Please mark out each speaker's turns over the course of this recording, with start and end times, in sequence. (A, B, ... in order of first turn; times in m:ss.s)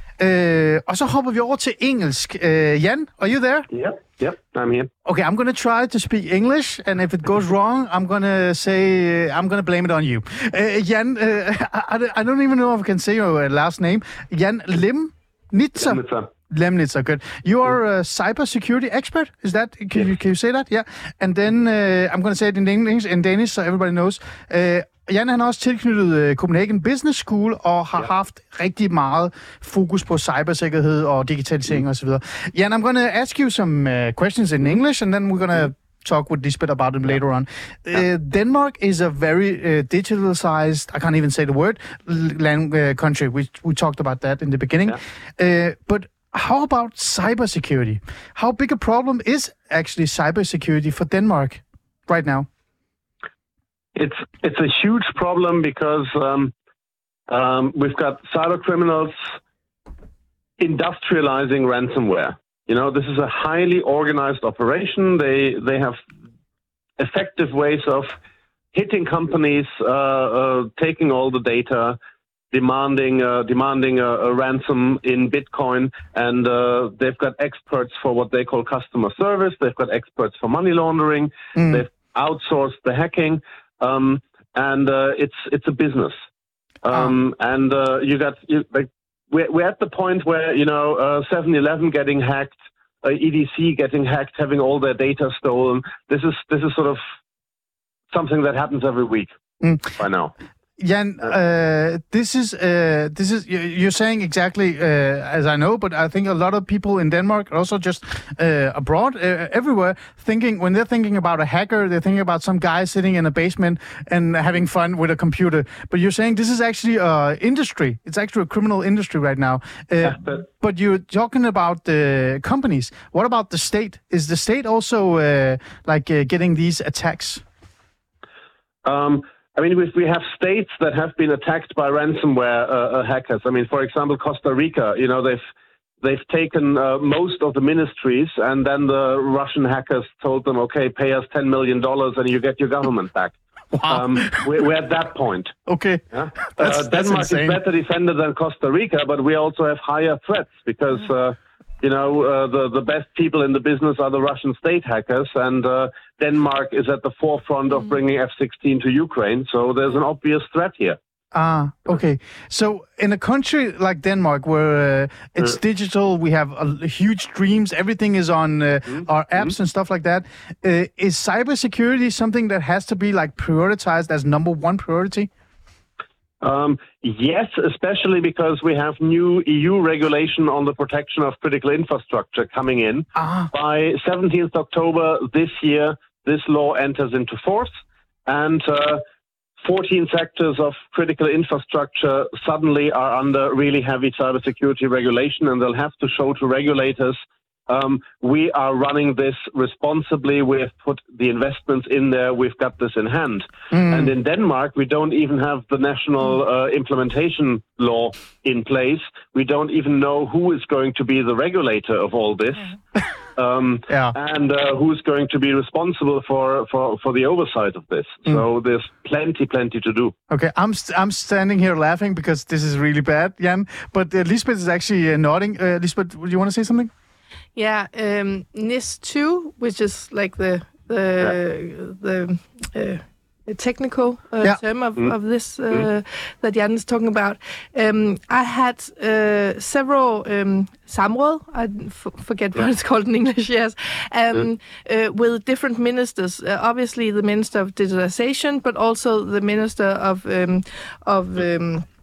0:00.2-0:03.7 A
0:03.7-0:04.9 B
0:05.0-0:52.5 A
0:15.8-0:16.3 B
0:54.0-0:56.5 B
0:57.3-0:59.1 B
1:00.6-1:06.0 B
1:07.0-1:08.1 B
1:08.7-1:12.0 B
1:12.5-1:26.1 B
1:21.6-1:21.8 A
1:26.8-1:37.0 B
1:38.1-1:39.3 B
1:39.6-1:40.0 A
1:40.0-1:40.3 B
1:40.8-2:07.4 A
2:00.0-2:00.4 B
2:08.8-2:15.4 B
2:16.0-2:23.4 B
2:23.7-2:24.5 A
2:23.9-2:25.6 B
2:25.7-2:27.6 A
2:26.1-2:41.0 B
2:41.3-2:55.3 A
2:56.4-3:07.7 B
3:03.2-3:03.5 A
3:08.2-3:09.0 B
3:09.6-3:32.8 B
3:23.7-3:24.1 A
3:33.4-3:40.1 B
3:33.9-3:34.1 A
3:40.3-3:46.9 A
3:47.6-4:11.8 C